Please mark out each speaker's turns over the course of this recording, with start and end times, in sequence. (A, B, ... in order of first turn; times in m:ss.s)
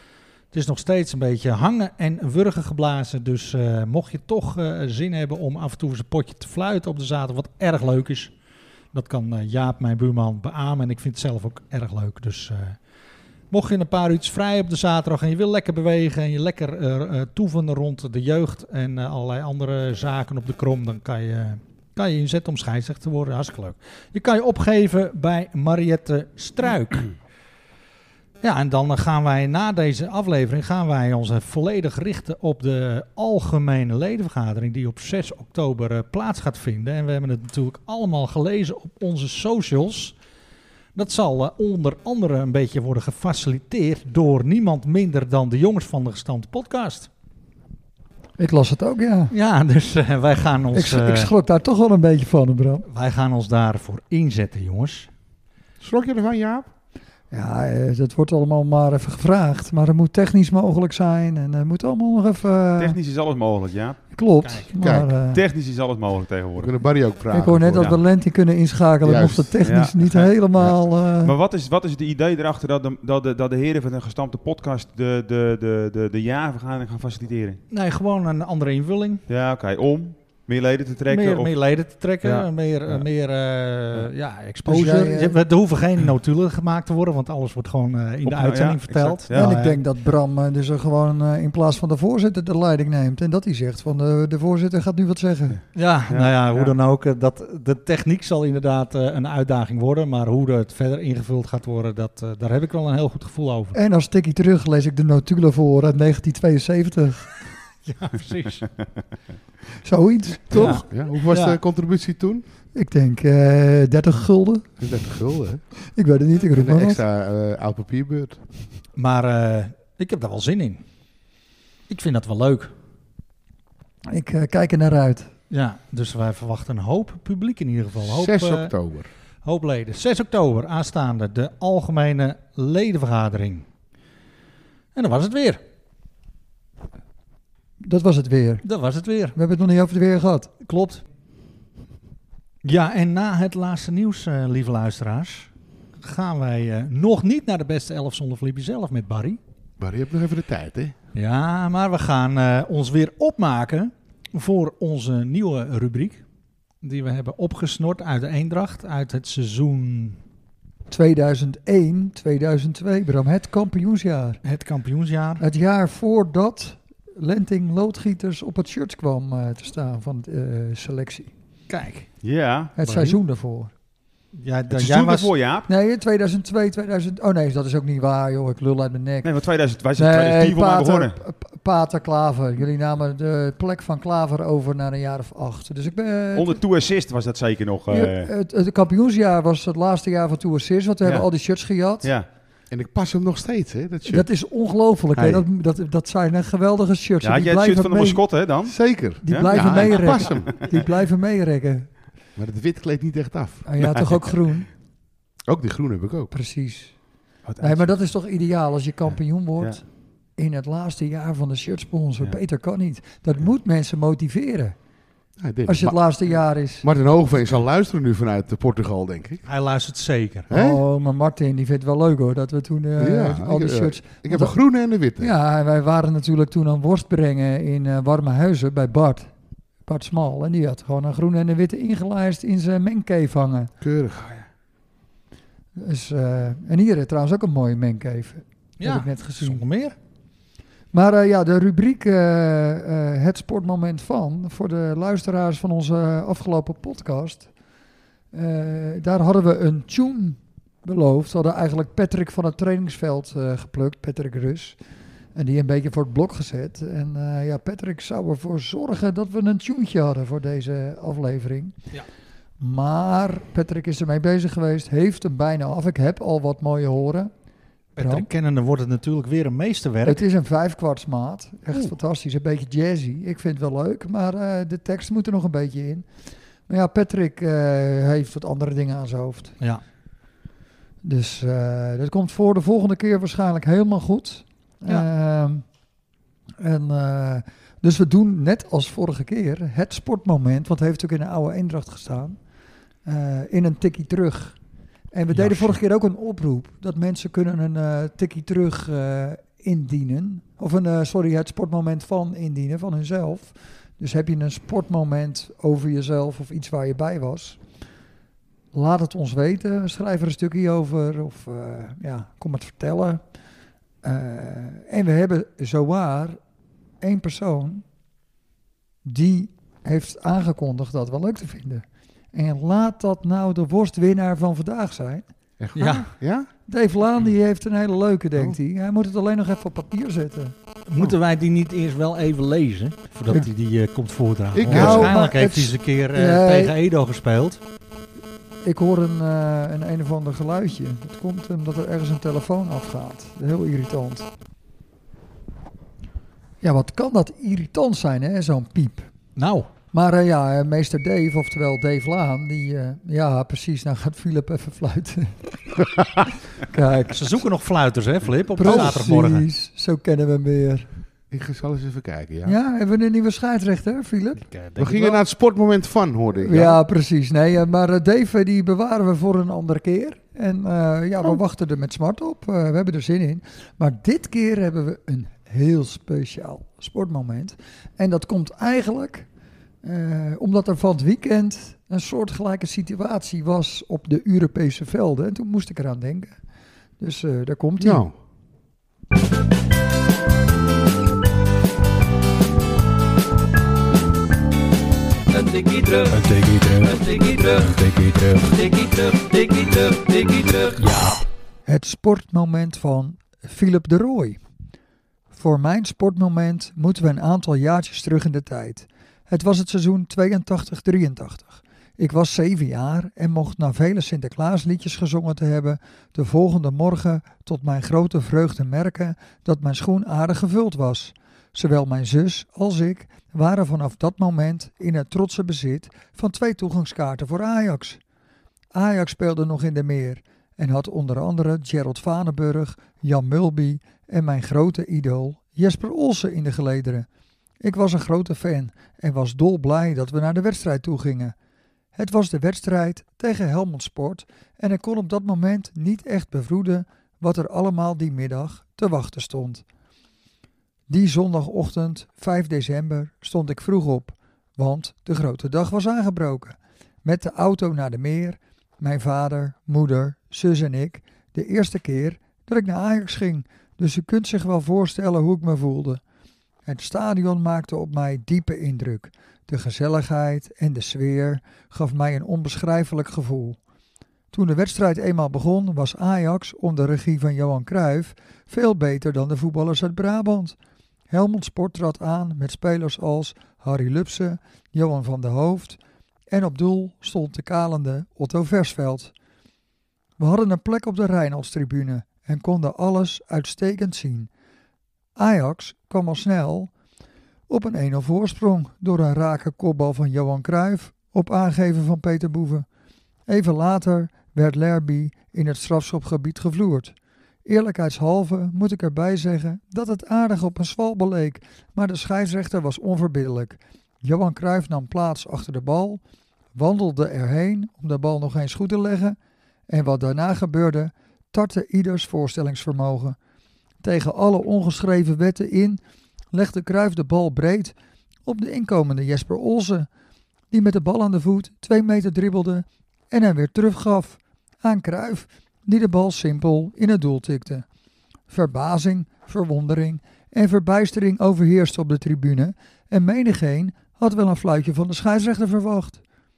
0:00.5-0:08.3 A
0:08.9-0:12.8 A
0:13.5-0:27.1 A
0:28.4-0:40.1 A
0:40.9-0:47.1 A
0:48.4-0:49.3 B
0:49.3-0:51.3 A
0:50.7-0:52.8 B
0:52.8-0:55.1 A
0:55.8-0:56.7 C
0:57.3-1:03.0 B
1:02.8-1:04.0 D
1:04.1-1:05.4 B
1:04.4-1:04.7 A
1:04.8-1:05.1 C
1:05.3-1:06.7 D
1:06.6-1:08.0 C
1:07.3-1:11.3 B
1:09.0-1:09.6 C
1:09.6-1:17.6 D
1:17.7-1:19.2 A
1:19.3-1:23.0 D
1:21.1-1:29.8 A
1:24.6-1:25.4 B
1:28.2-1:29.5 D
1:29.3-1:35.6 B
1:35.5-1:36.7 D
1:35.7-1:43.8 A
1:43.7-1:47.4 B
1:47.8-1:48.7 A
1:49.8-1:50.8 B
1:50.5-1:52.4 C
1:50.5-1:51.6 A
1:52.7-1:54.8 B
1:54.8-1:55.6 C
1:55.9-1:57.0 B
1:56.5-1:58.6 C
1:59.0-2:00.8 A
2:01.9-2:02.7 A
2:04.1-2:05.3 B
2:05.5-2:08.7 A
2:08.1-2:09.1 C
2:09.4-2:13.6 A
2:14.9-2:15.6 A
2:17.8-2:18.6 B
2:18.6-2:19.4 A
2:19.3-2:20.5 B
2:20.6-2:21.0 A
2:22.6-2:25.5 A
2:26.0-2:29.4 A
2:29.8-2:30.9 C
2:31.1-2:36.2 A
2:36.8-2:40.2 A
2:40.9-2:44.4 B
2:44.4-2:45.4 A
2:45.4-2:51.3 B
2:51.7-2:52.1 A
2:52.2-2:52.7 D
2:52.8-2:53.7 B
2:52.8-2:53.2 C
2:54.3-2:55.3 A
2:54.7-2:55.7 D
2:55.7-2:59.3 B
2:59.2-3:01.2 D
3:00.0-3:06.6 B
3:06.3-3:08.3 D
3:07.9-3:12.1 B
3:12.0-3:12.3 D
3:12.7-3:14.3 C
3:14.1-3:18.2 B
3:17.2-3:20.5 D
3:18.6-3:20.6 C
3:19.2-3:21.9 B
3:22.4-3:23.6 C
3:23.6-3:24.7 B
3:23.8-3:24.2 D
3:25.5-3:26.3 C
3:26.3-3:26.9 B
3:27.4-3:27.9 D
3:27.6-3:29.8 B
3:30.4-3:34.8 B
3:35.4-3:39.4 C
3:35.6-3:36.9 B
3:39.4-3:40.5 A
3:40.5-3:40.8 C
3:40.5-3:44.5 B
3:43.0-3:45.3 C
3:45.2-3:49.3 B
3:49.8-3:53.7 B
3:53.8-3:54.3 C
3:55.8-3:59.6 B
3:58.8-4:00.0 A
4:00.9-4:07.5 B
4:08.3-4:14.8 B
4:15.3-4:21.7 B
4:22.6-4:27.3 B
4:28.0-4:30.2 A
4:28.0-4:28.3 B
4:30.0-4:36.0 B
4:36.7-4:39.6 B
4:41.0-4:45.6 B
4:46.6-4:52.4 B
4:53.0-4:54.6 B
4:55.1-5:07.6 B
4:55.3-4:55.8 A
5:08.7-5:13.2 B
5:14.0-5:16.4 B
5:17.0-5:17.8 B
5:19.0-5:25.3 B
5:25.6-5:26.5 C
5:25.7-5:26.1 A
5:26.7-5:30.5 B
5:30.9-5:37.6 A
5:34.5-5:35.2 C
5:34.7-5:36.7 B
5:38.6-5:44.3 B
5:46.6-5:49.1 B
5:49.4-5:49.7 A
5:49.9-5:56.0 B
5:56.6-5:57.2 B
5:57.1-5:59.5 A
5:58.6-6:00.9 B
5:58.6-5:59.0 C
6:01.3-6:02.6 C
6:02.4-6:04.5 B
6:04.4-6:05.2 A
6:04.8-6:06.8 C
6:06.4-6:19.3 B
6:19.8-6:26.4 B
6:27.0-6:28.1 B
6:27.8-6:28.2 C
6:35.3-6:36.2 E
6:36.1-6:37.0 F
6:36.8-6:37.7 E
6:37.6-6:38.5 F
6:38.5-6:40.8 E
6:40.8-6:41.2 F
6:41.6-6:44.4 B
6:45.3-7:08.0 B
7:08.7-7:17.1 B
7:17.6-7:21.3 B
7:21.9-7:29.6 B
7:30.9-7:46.0 B
7:46.6-7:53.6 B
7:54.3-8:00.6 B
8:01.1-8:05.8 B
8:06.3-8:09.1 B
8:10.2-8:14.3 B
8:15.2-8:16.7 B
8:17.5-8:22.6 B
8:23.3-8:26.9 B
8:27.4-8:36.0 B
8:36.5-8:39.2 B
8:39.7-8:43.2 B
8:43.8-8:45.8 B
8:46.3-8:47.7 B
8:48.2-8:49.9 B
8:50.5-8:57.6 B
8:58.3-9:06.0 B